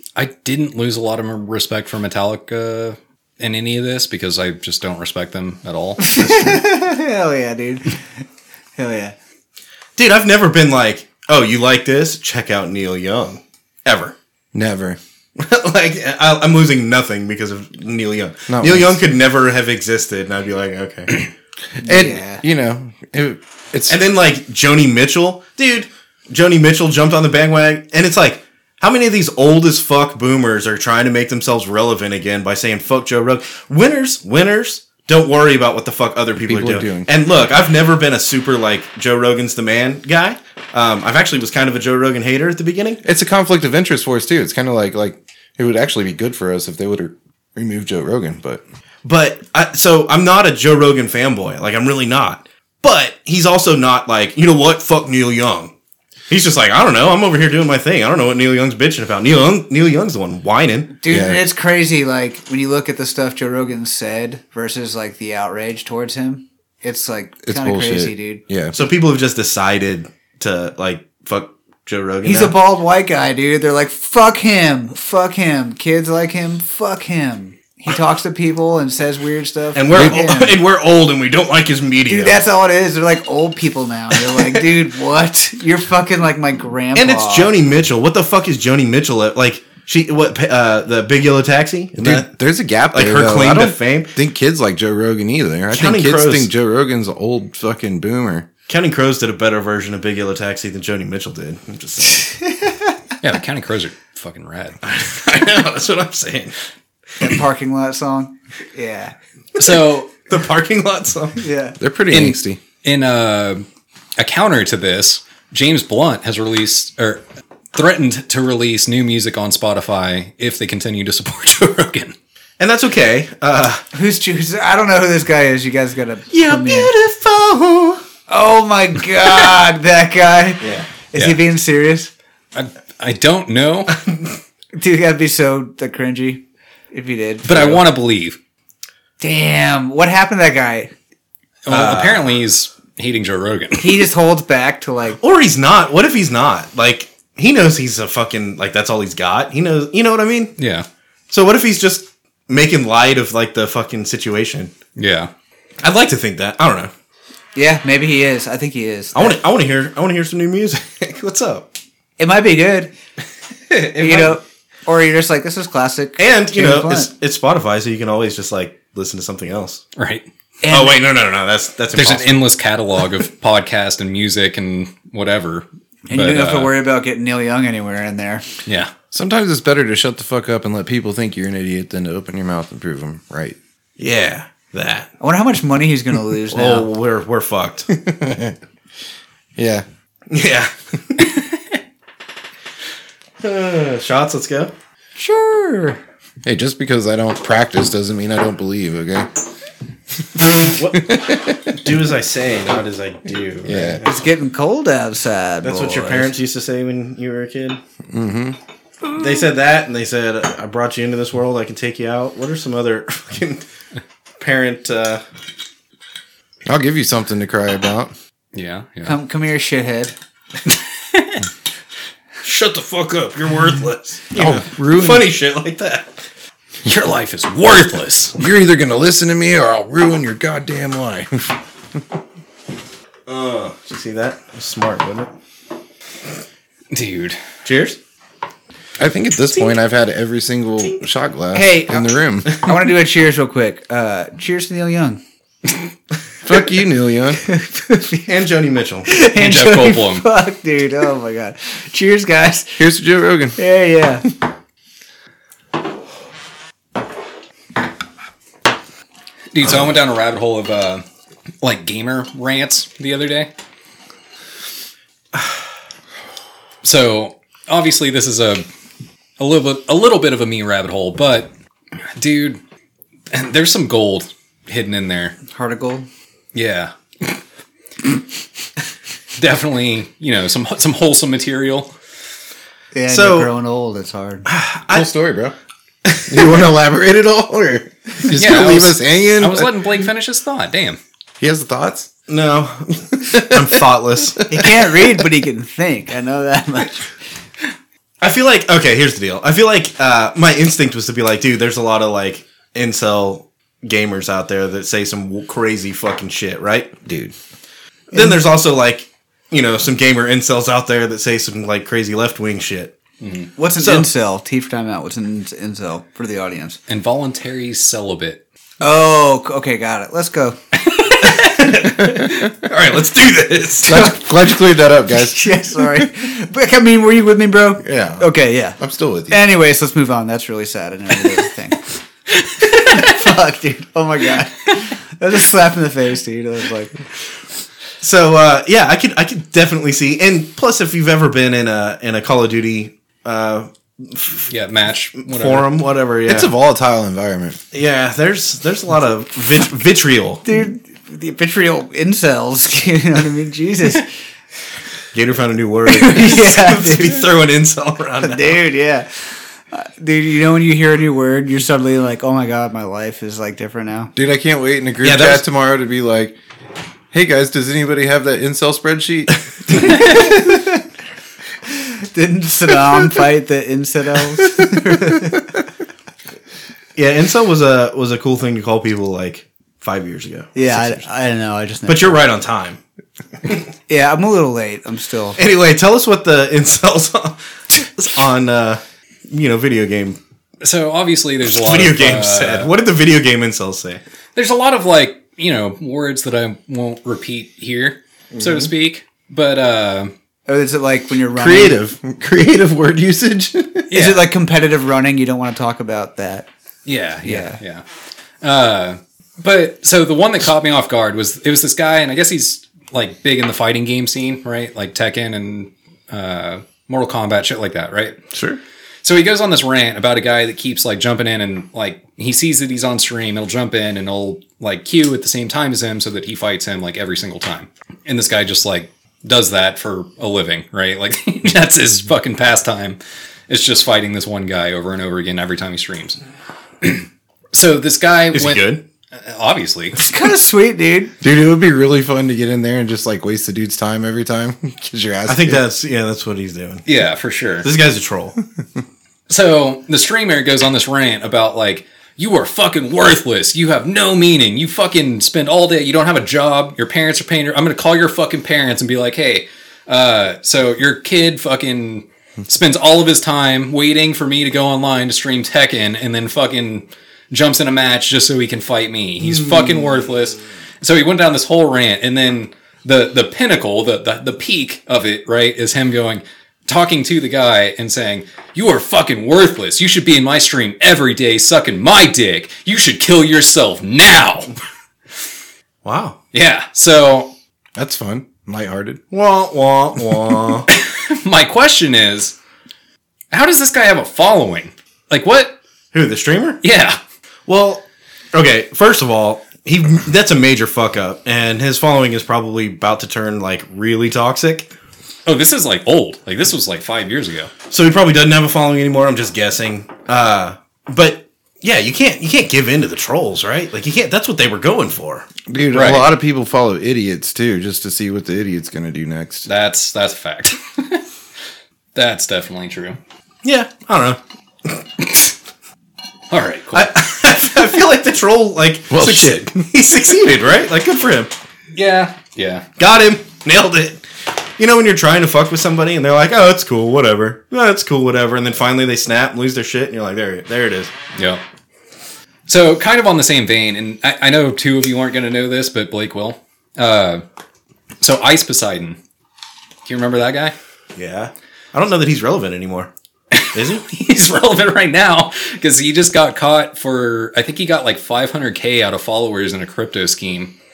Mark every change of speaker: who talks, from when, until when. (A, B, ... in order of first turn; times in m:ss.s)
0:00.2-0:06.6 A
0:06.0-0:08.0 B
0:08.8-0:09.2 B
0:10.0-0:14.2 C
0:14.5-0:15.0 D
0:15.4-0:21.3 C
0:18.5-0:19.0 D
0:21.8-0:24.0 D
0:21.8-0:22.4 B
0:23.9-0:43.0 C
0:36.4-0:37.1 D
0:43.0-0:48.6 D
0:49.0-0:55.7 C
0:56.3-1:00.9 C
1:01.0-1:08.4 B
1:01.1-1:01.4 D
1:07.4-1:08.8 D
1:08.7-1:12.6 C
1:12.2-1:20.6 B
1:19.8-1:22.4 C
1:19.9-1:20.2 D
1:22.1-1:27.5 B
1:24.3-1:24.6 C
1:26.9-1:32.3 C
1:32.0-1:38.5 D
1:32.9-1:34.1 C
1:35.7-1:36.5 C
1:38.7-1:42.3 C
1:42.3-1:42.9 B
1:43.2-1:44.8 A
1:44.8-1:46.6 C
1:47.2-1:49.2 B
1:49.6-1:50.1 A
1:49.6-1:51.4 C
1:51.4-1:51.8 B
1:51.8-1:52.6 D
1:52.1-1:53.6 A
1:54.2-1:57.2 A
1:57.7-2:02.2 A
2:02.6-2:03.8 C
2:03.9-2:06.9 B
2:06.3-2:08.0 C
2:08.3-2:12.1 B
2:10.6-2:10.9 C
2:11.2-2:11.4 A
2:12.5-2:14.0 A
2:14.7-2:17.8 B
2:17.4-2:18.4 A
2:19.2-2:20.9 B
2:21.6-2:24.1 A
2:21.7-2:22.3 C
2:23.8-2:25.2 B
2:25.2-2:30.5 C
2:30.6-2:30.9 A
2:31.3-2:34.7 C
2:35.0-2:35.3 A
2:35.8-2:36.9 C
2:37.6-2:39.4 B
2:39.2-2:41.7 C
2:42.2-2:42.9 B
2:43.7-2:44.4 C
2:44.0-2:47.1 B
2:46.2-2:49.8 C
2:50.0-2:50.3 A
2:50.6-2:51.0 B
2:50.7-2:52.4 C
2:51.9-2:56.7 A
2:56.1-2:58.4 B
2:58.7-2:58.9 A
2:59.1-3:03.6 D
3:04.0-3:05.1 C
3:05.2-3:06.9 B
3:06.5-3:07.9 C
3:07.9-3:08.6 D
3:09.6-3:09.8 D
3:10.3-3:11.3 C
3:13.4-3:14.7 C
3:15.2-3:16.0 B
3:16.4-3:19.3 D
3:20.7-3:24.2 C
3:20.9-3:21.8 D
3:23.6-3:24.0 D
3:24.0-3:26.3 B
3:25.6-3:27.8 C
3:28.1-3:28.6 D
3:29.1-3:33.6 C
3:34.4-3:35.2 C
3:36.7-3:38.1 D
3:38.5-3:39.2 A
3:39.0-3:40.1 B
3:41.1-3:41.4 A
3:42.4-3:46.2 C
3:44.4-3:45.3 D
3:46.8-3:48.4 A
3:48.4-3:52.0 D
3:53.3-3:55.3 C
3:56.9-3:57.4 A
3:57.6-3:58.0 C
3:59.0-4:02.7 D
4:01.5-4:05.2 B
4:06.4-4:07.4 D
4:07.4-4:08.3 B
4:08.3-4:09.1 C
4:09.1-4:12.8 B
4:09.3-4:10.3 A
4:12.8-4:13.6 D
4:13.6-4:14.3 B
4:19.5-4:21.0 A
4:21.6-4:23.5 A
4:26.8-4:28.7 A
4:29.4-4:31.5 A
4:32.2-4:32.6 A
4:33.3-4:35.4 A
4:35.5-4:36.1 B
4:36.5-4:37.4 A
4:39.4-4:41.9 A
4:42.9-4:44.4 B
4:43.1-4:43.5 C
4:44.5-4:45.1 C
4:44.9-4:45.6 D
4:46.1-4:46.6 C
4:46.3-4:49.7 D
4:48.3-4:51.0 A
4:51.4-4:52.1 D
4:52.3-4:54.5 C
4:53.2-4:53.6 D
4:54.4-4:54.6 D
4:54.5-4:57.1 B
4:58.2-5:07.0 C
5:07.0-5:07.3 D
5:08.1-5:13.0 C
5:13.2-5:13.5 A
5:13.6-5:16.8 B
5:13.8-5:14.1 C
5:16.9-5:18.4 A
5:18.8-5:20.6 B
5:20.8-5:21.7 A
5:21.2-5:24.1 C
5:23.8-5:26.0 D
5:23.9-5:24.3 B
5:25.1-5:28.8 B
5:27.8-5:28.3 D
5:28.8-5:29.4 D
5:29.3-5:31.9 B
5:32.6-5:37.0 B
5:32.6-5:33.0 A
5:38.0-5:44.5 C
5:44.5-5:45.7 A
5:45.2-5:46.5 C
5:46.3-5:47.6 D
5:47.7-5:50.4 C
5:50.4-5:54.1 B
5:55.1-5:58.6 C
5:55.9-5:57.2 B
5:58.2-6:04.1 B
6:04.2-6:06.4 D
6:05.0-6:05.4 C
6:07.1-6:10.0 D
6:09.7-6:10.8 B
6:11.7-6:15.5 B
6:17.0-6:21.1 C
6:20.6-6:22.2 B
6:21.9-6:22.8 C
6:23.9-6:25.4 B
6:25.4-6:30.2 C
6:30.6-6:32.7 A
6:31.5-6:34.0 C
6:34.4-6:40.1 A
6:38.3-6:38.7 C
6:40.5-6:41.8 B
6:41.3-6:43.9 D
6:43.9-6:44.3 A
6:43.9-6:46.5 B
6:46.9-6:47.8 A
6:47.2-6:47.6 B
6:48.4-6:58.2 A
6:59.0-7:13.0 A
7:13.5-7:16.2 A
7:16.8-7:20.0 A
7:18.3-7:18.8 C
7:20.0-7:21.1 B
7:21.2-7:25.6 D
7:25.3-7:26.8 C
7:26.9-7:27.7 A
7:27.6-7:28.4 C
7:29.3-8:04.5 A
8:05.8-8:06.2 C
8:06.3-8:07.3 A
8:07.8-8:09.0 D
8:09.1-8:10.7 C
8:10.7-8:12.4 A
8:13.3-8:15.6 A
8:15.9-8:16.6 C
8:16.6-8:17.0 A
8:17.5-8:24.7 C
8:25.3-8:27.5 A
8:27.7-8:35.3 C
8:35.5-8:39.5 D
8:35.7-8:36.1 A
8:39.5-8:41.0 A
8:42.0-8:43.0 A
8:43.4-8:44.8 C
8:46.3-8:47.0 A
8:46.7-8:51.3 C
8:48.9-8:49.6 D
8:51.8-8:52.7 A
8:52.8-8:54.0 C
8:54.6-9:00.9 C
9:01.2-9:01.4 A
9:02.5-9:07.2 A
9:08.0-9:09.0 A
9:09.8-9:10.5 A
9:11.0-9:12.9 C
9:13.3-9:20.6 A
9:13.5-9:13.8 C